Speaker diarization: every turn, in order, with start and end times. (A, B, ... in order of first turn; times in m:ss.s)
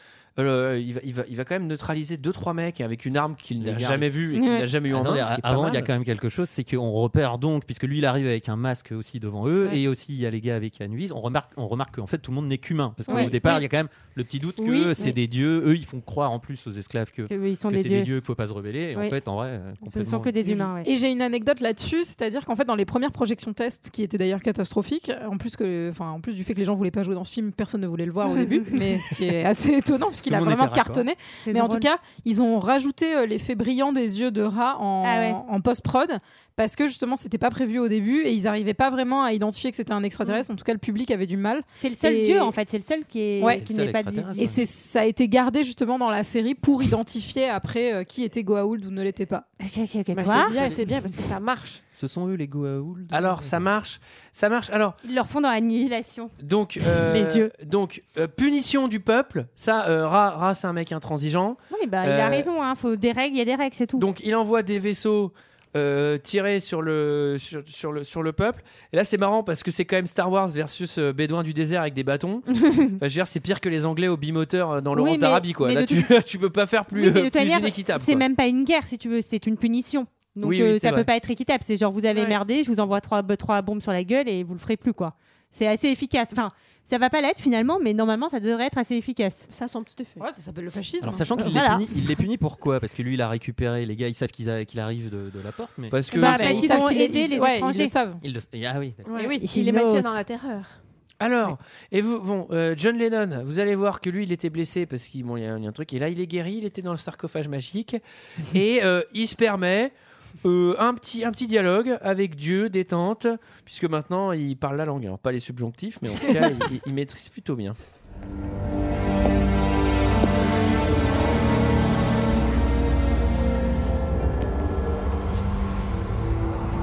0:00.4-0:05.9 A
0:03.6-0:04.1 B
0:04.3-0:04.7 C
0:04.9-0:20.6 B
0:13.1-0:13.6 C
0:13.1-0:13.6 D
0:14.6-0:15.1 D
0:17.3-0:18.1 C
0:19.8-0:20.9 C
0:20.5-0:42.6 E
0:30.2-0:31.1 B
0:31.4-0:31.9 C
0:35.0-0:35.4 C
0:41.8-0:44.6 C
0:43.4-0:43.6 E
0:43.4-0:44.6 B
0:44.4-0:49.4 E
0:49.6-0:50.6 C
0:50.1-0:51.8 D
0:50.2-0:50.8 B
0:51.9-0:53.7 B
0:53.1-0:55.0 A
0:55.0-0:56.3 C
0:56.4-1:02.5 A
0:56.9-0:57.5 C
1:01.7-1:04.1 C
1:04.0-1:18.2 A
1:12.6-1:12.9 C
1:14.9-1:16.1 C
1:16.9-1:29.5 C
1:20.4-1:21.1 A
1:22.1-1:22.4 D
1:29.5-1:30.2 D
1:30.2-1:31.6 E
1:31.0-1:36.0 B
1:31.4-1:31.9 C
1:35.9-1:36.7 A
1:36.1-1:38.2 E
1:36.2-1:37.9 C
1:38.2-1:39.1 B
1:39.0-1:40.8 D
1:39.1-1:40.2 E
1:41.2-1:49.9 A
1:50.4-1:57.8 A